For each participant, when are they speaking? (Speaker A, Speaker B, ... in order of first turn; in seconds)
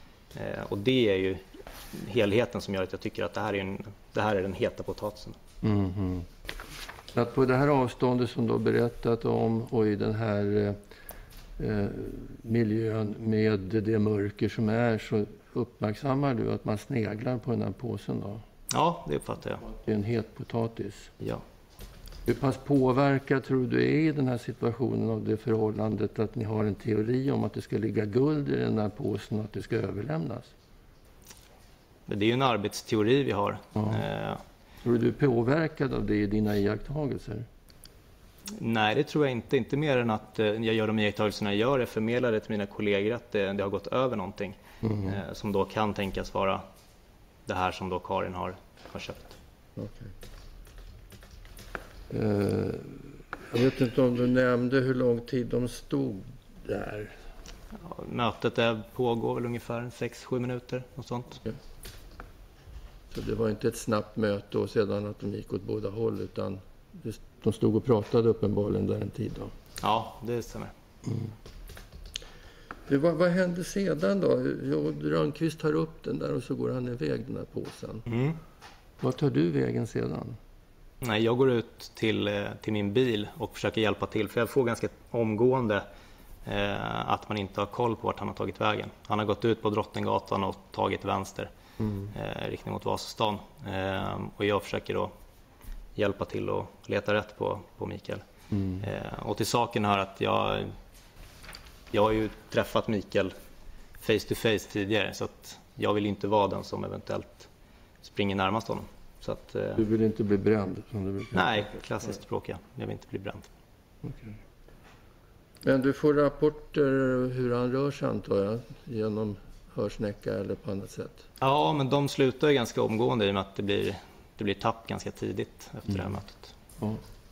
Speaker A: 0.3-5.4, 18.7-19.6, 32.1-34.4, 38.6-46.6, 47.5-49.4, 57.8-61.4, 69.8-70.7, 78.1-78.4, 81.0-85.8, 86.5-91.5, 92.1-95.1, 96.0-98.2, 98.8-100.7, 101.9-103.3, 104.0-107.5, 108.0-109.8, 111.3-113.5, 121.4-126.5
Speaker B: 5.6-6.3, 7.1-10.8, 11.6-18.4, 19.7-21.1, 22.3-30.5, 34.8-37.5, 44.8-45.2, 49.8-50.1, 52.1-57.1, 63.1-69.5, 71.0-71.3, 72.9-78.0, 79.0-80.4, 98.5-98.8, 109.8-111.7, 114.0-114.4, 115.6-121.2